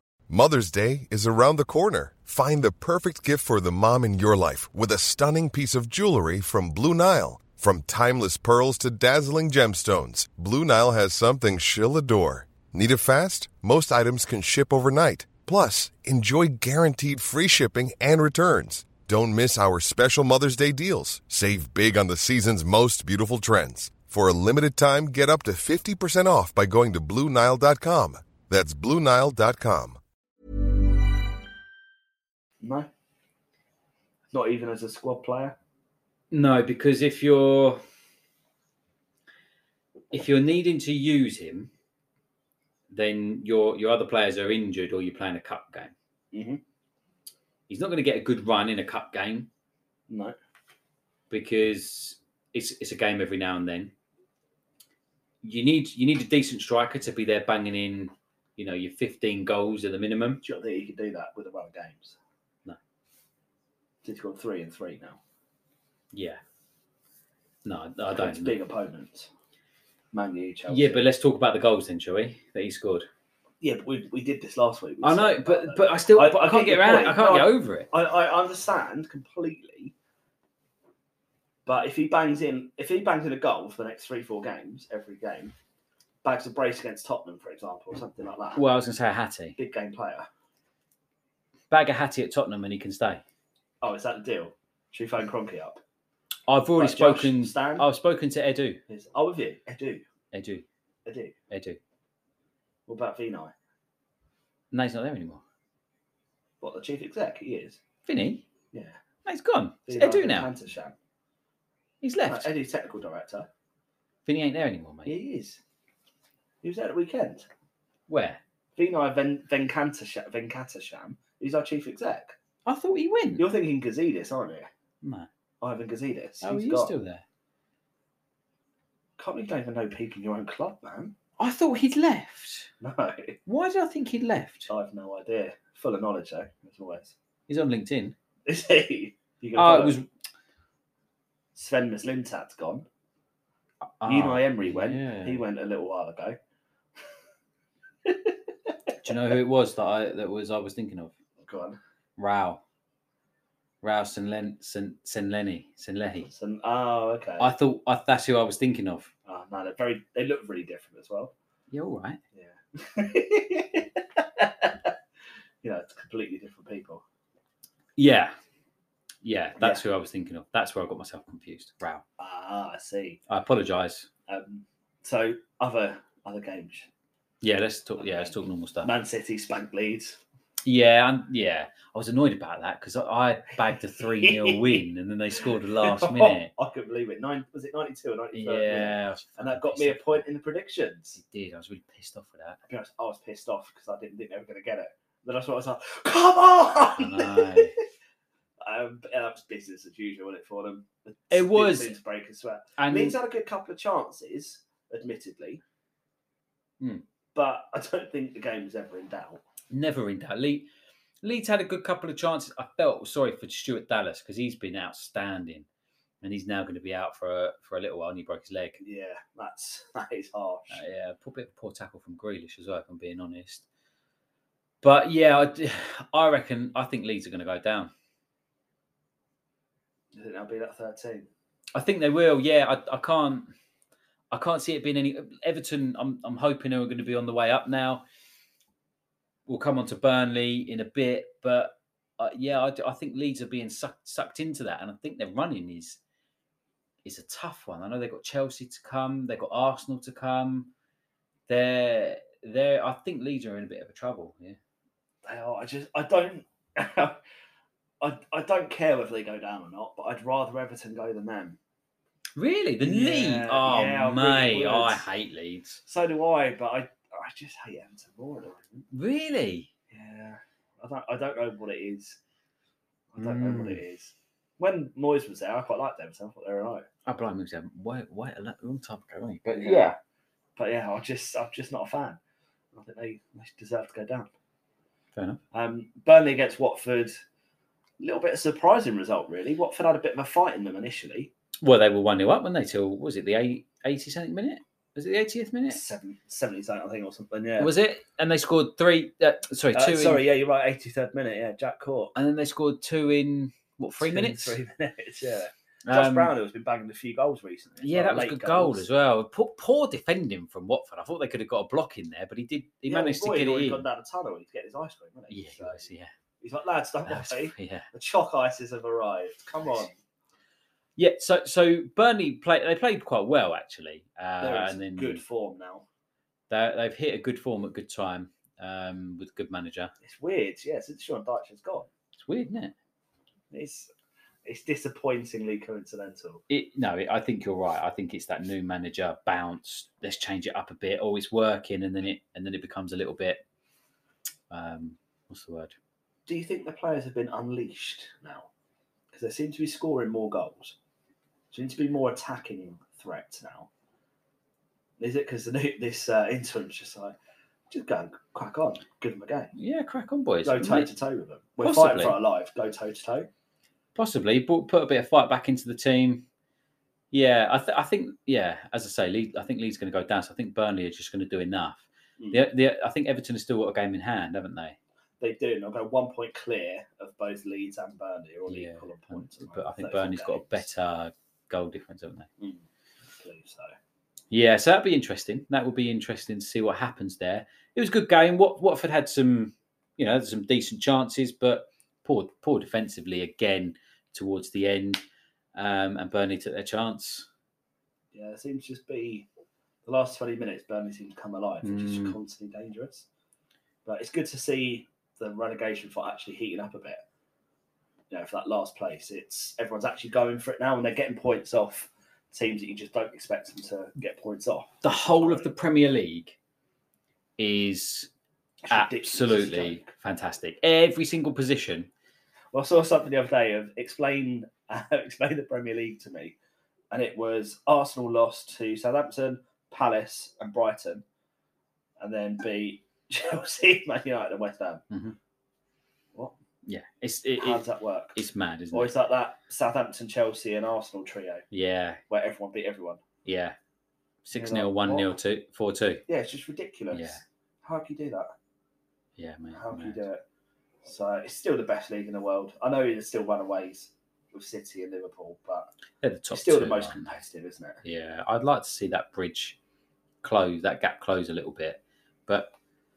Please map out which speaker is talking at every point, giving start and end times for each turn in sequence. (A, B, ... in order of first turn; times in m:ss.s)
0:00.3-0:30.0 A
0:32.6-0:32.9 B
0:34.3-0:35.6 B
0:36.3-0:37.8 C
0:40.1-0:41.7 C
0:42.9-0:45.9 C
0:46.3-0:46.6 B
0:47.7-0:49.5 C
0:50.1-0:50.4 B
0:51.3-0:53.9 C
0:55.4-1:00.4 C
1:00.4-1:02.2 B
1:04.0-1:05.2 B
1:06.1-1:06.4 C
1:07.6-1:08.6 C
1:08.1-1:09.3 B
1:10.1-1:11.0 B
1:10.7-1:13.1 C
1:13.6-1:19.9 B
1:15.0-1:17.9 C
1:21.6-1:25.5 B
1:26.2-1:28.6 B
1:28.5-1:29.6 C
1:29.6-1:30.3 B
1:31.7-1:33.2 C
1:33.8-1:35.8 B
1:36.5-1:38.8 C
1:36.8-1:37.8 B
1:38.9-1:40.0 B
1:40.3-1:40.6 C
1:41.0-1:41.3 B
1:41.5-1:41.8 C
1:42.9-1:43.5 B
1:44.7-1:45.4 C
1:46.6-1:47.8 B
1:48.0-1:48.4 C
1:48.7-1:49.0 B
1:49.2-1:50.5 C
1:49.9-1:50.9 B
1:52.0-1:52.5 C
1:52.2-1:53.5 B
1:54.2-1:55.2 C
1:55.0-1:55.6 B
1:56.6-1:57.5 B
1:58.1-1:58.4 C
1:58.8-2:02.4 B
2:02.6-2:03.5 C
2:03.4-2:04.7 B
2:05.0-2:05.3 C
2:05.6-2:06.9 B
2:06.4-2:07.2 C
2:09.2-2:11.1 B
2:11.4-2:12.7 C
2:12.8-2:13.4 B
2:13.5-2:14.7 C
2:14.7-2:17.1 B
2:17.5-2:18.1 C
2:18.5-2:20.0 B
2:19.5-2:20.0 C
2:21.5-2:22.8 B
2:24.0-2:25.4 C
2:24.0-2:26.4 B
2:28.0-2:28.4 B
2:29.0-2:31.1 C
2:31.4-2:31.8 B
2:32.2-2:32.6 C
2:33.8-2:36.3 C
2:36.3-2:37.5 B
2:37.4-2:39.1 C
2:39.3-2:41.3 B
2:41.7-2:42.2 C
2:42.3-2:44.9 B
2:45.6-2:47.0 B
2:48.0-2:48.3 C
2:49.2-2:52.0 C
2:52.2-2:53.2 B
2:53.3-2:54.1 C
2:54.3-2:56.9 B
2:57.4-2:58.9 C
2:58.0-3:00.2 B
3:00.6-3:06.5 C
3:04.2-3:04.8 B
3:05.8-3:11.2 B
3:08.3-3:10.2 C
3:11.1-3:12.6 C
3:12.7-3:17.8 B
3:16.9-3:17.7 C
3:18.6-3:25.6 B
3:21.3-3:22.0 C
3:22.8-3:23.2 C
3:27.3-3:29.4 B
3:29.7-3:30.7 C
3:31.2-3:35.6 C
3:36.2-3:38.8 C
3:38.8-3:40.8 B
3:40.7-3:43.6 C
3:44.8-3:47.9 C
3:50.1-3:51.3 B
3:51.7-3:53.5 C
3:54.3-3:58.0 C
3:59.5-4:06.0 C
4:07.0-4:10.7 C
4:11.5-4:14.6 C
4:15.2-4:17.2 B
4:18.0-4:21.6 B
4:22.4-4:25.8 C
4:22.8-4:25.1 B
4:25.8-4:28.8 B
4:28.9-4:29.7 C
4:29.9-4:32.2 B
4:33.1-4:36.8 B
4:33.2-4:33.8 C
4:37.0-4:40.0 C
4:39.6-4:40.0 B
4:40.6-4:42.2 B
4:42.7-4:44.3 B
4:45.1-4:45.4 C
4:45.5-4:47.2 B
4:48.0-4:51.3 B
4:51.6-4:55.8 C
4:55.7-4:57.7 B
4:57.6-5:00.2 C
4:59.7-5:02.1 B
5:02.2-5:04.6 C
5:04.0-5:08.8 B
5:05.8-5:06.3 C
5:07.8-5:13.8 C
5:12.9-5:15.9 B
5:15.3-5:16.1 C
5:16.4-5:20.0 B
5:17.0-5:17.9 C
5:21.0-5:25.2 C
5:24.4-5:25.8 B
5:26.5-5:29.9 C
5:30.0-5:31.9 B
5:32.1-5:32.7 C
5:33.5-5:33.9 B
5:34.4-5:36.4 B
5:36.5-5:43.4 C
5:44.5-5:45.7 C
5:46.3-5:48.5 B
5:49.1-5:50.7 B
5:51.5-5:53.7 B
5:55.0-5:57.2 B
5:57.7-5:59.5 B
5:59.6-6:00.9 C
6:00.4-6:03.3 B
6:01.6-6:02.2 C
6:03.9-6:06.2 C
6:07.1-6:14.8 C
6:12.2-6:12.5 B
6:15.2-6:20.6 B
6:18.5-6:22.3 C
6:22.4-6:23.7 B
6:24.3-6:35.0 C
6:35.5-6:37.3 C
6:38.1-6:39.3 B
6:39.8-6:43.0 B
6:41.6-6:42.1 C
6:43.8-6:47.0 B
6:48.1-6:55.5 B
6:54.8-6:56.4 C
6:57.4-6:58.1 C
6:58.6-6:59.9 B
6:58.7-7:01.9 C
7:02.5-7:06.3 B
7:06.9-7:11.0 B
7:12.0-7:14.8 B
7:14.9-7:15.2 C
7:16.6-7:17.6 C
7:17.4-7:18.2 B
7:18.1-7:18.9 C
7:18.7-7:21.4 B
7:21.5-7:22.0 C
7:22.1-7:23.0 B
7:23.2-7:23.6 C
7:24.2-7:26.0 C
7:24.3-7:25.1 B
7:26.1-7:28.3 B
7:26.9-7:27.2 C
7:29.2-7:30.0 C
7:29.5-7:30.2 B
7:30.8-7:35.7 B
7:36.0-7:37.2 C
7:36.3-7:37.8 B
7:37.8-7:39.6 C
7:40.2-7:42.5 C